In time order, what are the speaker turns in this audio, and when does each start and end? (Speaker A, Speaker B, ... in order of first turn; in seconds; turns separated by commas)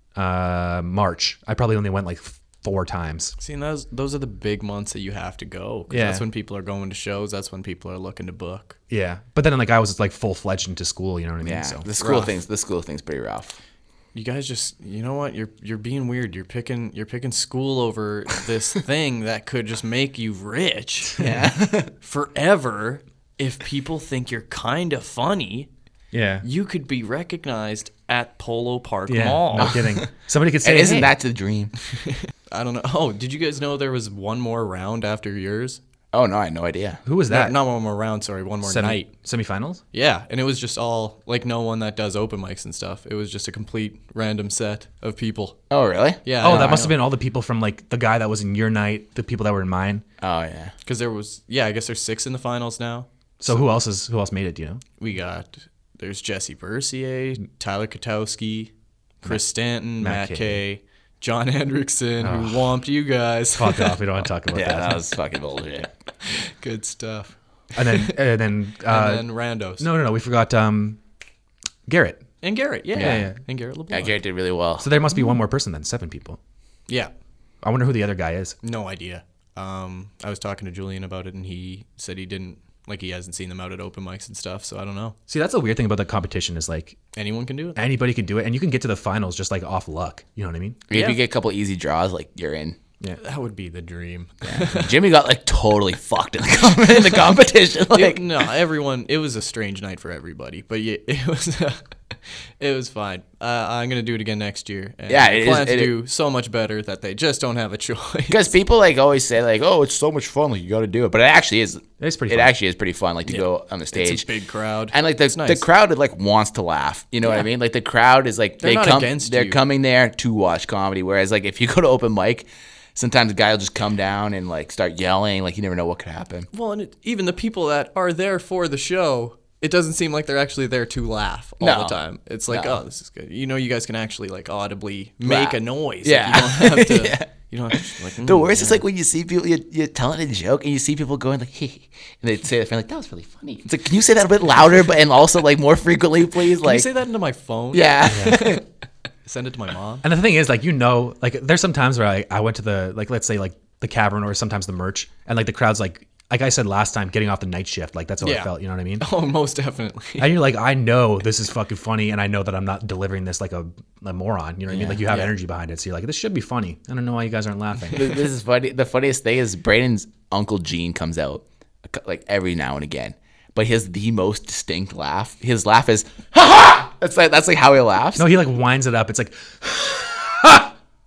Speaker A: 0.1-3.3, Speaker B: 3.4-8.8, Speaker A: 5.9-6.2, Speaker A: 8.9-11.8, Speaker C: 11.4-13.6, Speaker B: 12.0-12.3, Speaker B: 14.1-21.3, Speaker C: 21.2-21.9, Speaker B: 22.0-25.7, Speaker A: 26.1-26.4, Speaker B: 26.4-29.8, Speaker A: 29.1-31.1, Speaker C: 29.6-30.0, Speaker C: 30.6-31.7, Speaker B: 32.1-35.8, Speaker C: 36.1-37.0, Speaker A: 37.0-37.6, Speaker B: 37.3-39.1, Speaker A: 38.6-39.8, Speaker B: 39.9-45.6, Speaker C: 45.7-46.9, Speaker B: 46.2-47.0, Speaker A: 46.4-50.0, Speaker C: 50.2-50.7, Speaker B: 50.8-53.6, Speaker A: 53.4-54.8, Speaker B: 55.0-58.7, Speaker B: 59.2-64.1, Speaker A: 60.0-60.6, Speaker A: 62.2-62.6, Speaker A: 63.5-65.0, Speaker C: 64.5-65.9, Speaker B: 66.2-67.3, Speaker A: 67.7-71.0, Speaker B: 68.9-69.8, Speaker A: 71.9-72.2, Speaker B: 72.4-74.2, Speaker C: 72.9-73.2, Speaker A: 73.0-73.4, Speaker C: 73.9-74.8, Speaker A: 74.8-76.4, Speaker A: 77.6-78.5, Speaker B: 78.6-85.2, Speaker A: 85.3-87.0, Speaker B: 87.2-87.8, Speaker A: 87.8-90.8, Speaker C: 90.9-92.8, Speaker B: 90.9-91.2, Speaker B: 93.2-95.0, Speaker C: 94.4-98.2, Speaker B: 97.9-108.5, Speaker C: 105.1-105.9, Speaker C: 108.3-114.2, Speaker A: 112.0-112.5, Speaker B: 113.3-115.6, Speaker C: 114.9-126.5, Speaker B: 118.6-119.6, Speaker B: 126.5-138.8, Speaker C: 131.6-132.0, Speaker C: 132.5-132.8, Speaker C: 135.2-146.9, Speaker B: 146.6-148.6, Speaker C: 147.7-148.6, Speaker A: 148.1-148.3, Speaker B: 149.2-150.0, Speaker A: 150.0-159.1, Speaker B: 158.2-160.3, Speaker A: 160.2-168.1, Speaker C: 164.7-165.0, Speaker B: 165.1-165.3, Speaker C: 167.9-178.3, Speaker A: 178.2-180.7